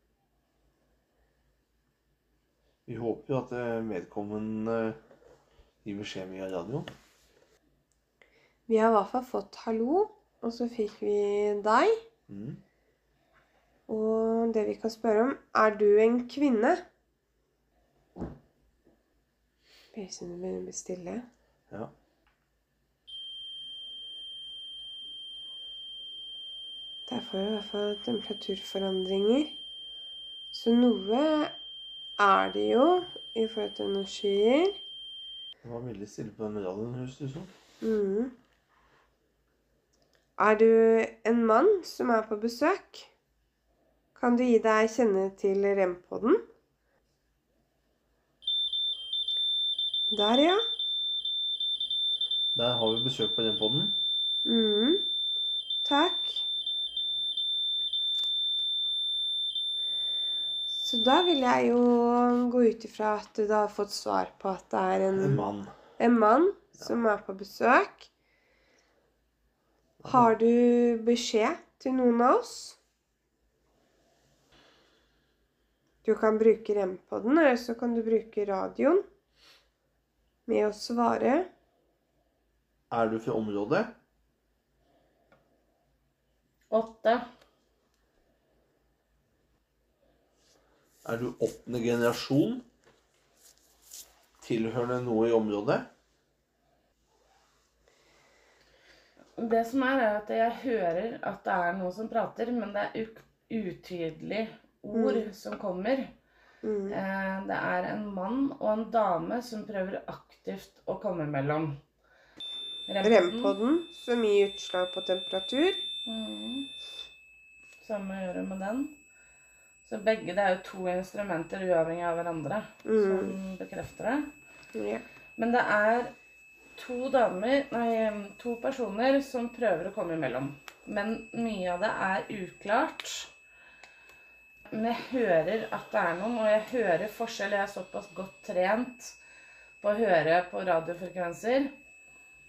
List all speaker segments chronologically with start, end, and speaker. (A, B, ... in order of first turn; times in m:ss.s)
0:02.9-0:05.0 A
0:05.8-0:06.9 A
0:08.7-0:12.0 B
0:12.3-0:12.6 A
0:13.9-0:16.8 B
0:19.9-0:21.2 B
0:27.1-0:29.5 B
0:30.5-0:31.5 B
0:32.2-0:34.8 B
0:35.6-0:37.5 A
0:37.8-0:38.3 B
0:40.4-0:43.1 B
0:44.2-0:46.4 B
0:50.1-0:50.6 B
0:52.6-0:54.0 A
0:54.4-0:55.0 B
0:55.8-0:56.4 B
1:00.7-1:05.5 B
1:05.2-1:05.8 A
1:06.0-1:08.1 B
1:10.0-1:10.3 A
1:10.1-1:12.8 B
1:16.0-1:19.0 B
1:20.5-1:21.5 B
1:22.9-1:23.9 A
1:26.7-1:27.2 C
1:31.0-1:32.6 A
1:34.4-1:35.9 A
1:39.4-1:46.1 C
1:44.9-1:45.3 B
1:46.6-1:47.0 B
1:46.9-1:51.8 C
1:52.9-1:53.6 C
1:53.0-1:55.9 B
1:56.0-1:56.7 C
1:57.8-1:59.0 C
1:59.8-2:04.3 C
2:02.8-2:03.4 B
2:04.7-2:05.0 B
2:05.4-2:06.1 C
2:06.8-2:13.3 C
2:14.7-2:19.2 C
2:19.8-2:21.7 C